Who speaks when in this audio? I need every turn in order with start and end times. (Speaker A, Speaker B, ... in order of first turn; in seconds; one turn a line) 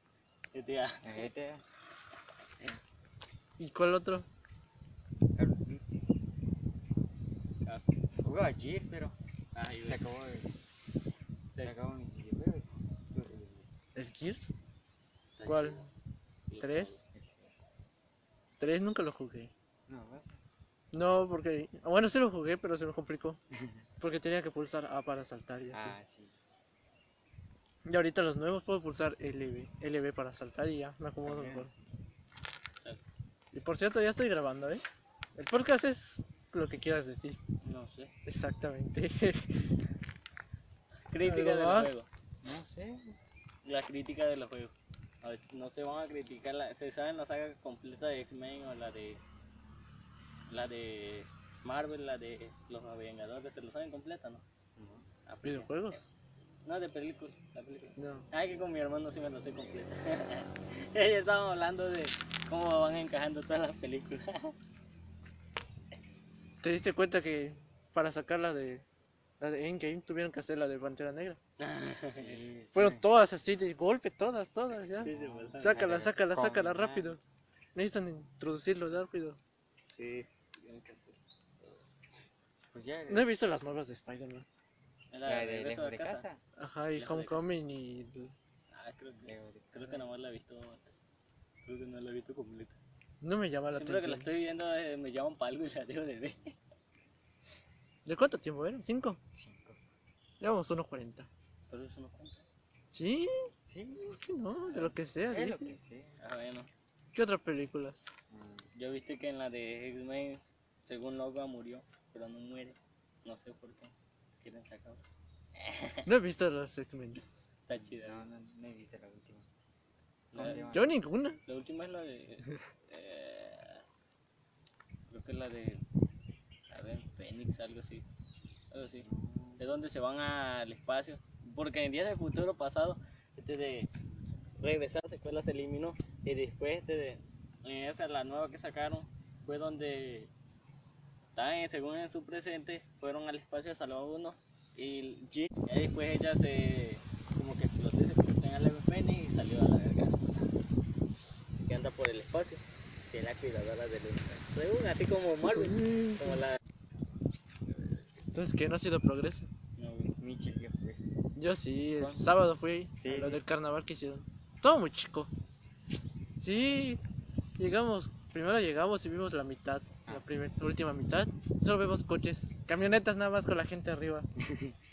Speaker A: 0.5-1.3
Speaker B: 1.0-1.6
Speaker C: 3.6-4.3
Speaker B: 5.4-6.0
Speaker A: 7.6-7.9
Speaker B: 8.2-9.2
Speaker A: 9.5-10.0
Speaker B: 9.8-10.6
Speaker B: 11.6-13.7
Speaker C: 13.9-14.5
Speaker A: 15.4-15.9
Speaker C: 15.5-15.9
Speaker A: 16.5-17.0
Speaker C: 16.6-17.0
Speaker B: 17.1-17.6
Speaker C: 18.6-19.5
Speaker B: 19.9-20.4
Speaker C: 20.9-23.4
Speaker B: 23.5-23.9
Speaker C: 24.0-26.0
Speaker B: 25.7-26.4
Speaker C: 27.9-31.7
Speaker B: 31.2-31.8
Speaker C: 33.5-34.8
Speaker C: 35.4-37.4
Speaker A: 37.6-38.1
Speaker C: 38.2-39.7
Speaker A: 41.1-42.1
Speaker C: 41.2-42.0
Speaker B: 42.4-43.2
Speaker A: 43.6-49.2
Speaker A: 50.5-54.4
Speaker B: 54.8-55.1
Speaker A: 55.3-56.0
Speaker C: 55.4-56.1
Speaker A: 56.6-64.5
Speaker C: 58.0-58.3
Speaker C: 66.6-68.8
Speaker C: 69.4-71.4
Speaker A: 71.6-72.4
Speaker B: 72.1-73.1
Speaker C: 72.8-77.2
Speaker B: 74.8-77.2
Speaker A: 75.0-75.8
Speaker C: 77.8-79.4
Speaker A: 79.9-81.9
Speaker B: 82.7-83.3
Speaker C: 83.1-84.5
Speaker A: 85.1-86.3
Speaker B: 85.2-86.4
Speaker C: 86.6-88.3
Speaker A: 87.0-87.5
Speaker A: 88.7-90.9
Speaker B: 89.2-90.1
Speaker A: 91.6-92.8
Speaker C: 93.2-94.3
Speaker A: 93.7-96.5
Speaker C: 98.1-99.2
Speaker B: 99.3-99.8
Speaker C: 100.4-101.3
Speaker A: 101.7-102.4
Speaker C: 102.9-103.5
Speaker B: 103.7-104.1
Speaker C: 104.0-105.7
Speaker A: 104.7-105.0
Speaker B: 105.3-106.2
Speaker A: 106.2-106.7
Speaker C: 107.1-108.1
Speaker B: 108.3-108.7
Speaker A: 108.8-115.0
Speaker A: 115.6-116.0
Speaker C: 116.1-117.2
Speaker A: 117.7-118.3
Speaker B: 117.8-119.5
Speaker A: 120.3-120.7
Speaker B: 120.3-121.0
Speaker C: 120.4-121.4
Speaker A: 121.5-123.8
Speaker A: 125.1-125.8
Speaker A: 126.7-128.1
Speaker A: 128.7-129.1
Speaker B: 129.0-129.6
Speaker A: 129.6-133.9
Speaker A: 134.6-140.3
Speaker A: 141.3-150.3
Speaker A: 151.6-156.6
Speaker C: 155.5-156.4
Speaker A: 157.7-158.0
Speaker C: 158.3-159.5
Speaker A: 159.8-160.2
Speaker B: 160.2-161.1
Speaker C: 161.4-165.3
Speaker A: 162.0-162.2
Speaker B: 163.0-163.4
Speaker C: 166.4-167.0
Speaker C: 167.6-174.3
Speaker B: 174.5-174.7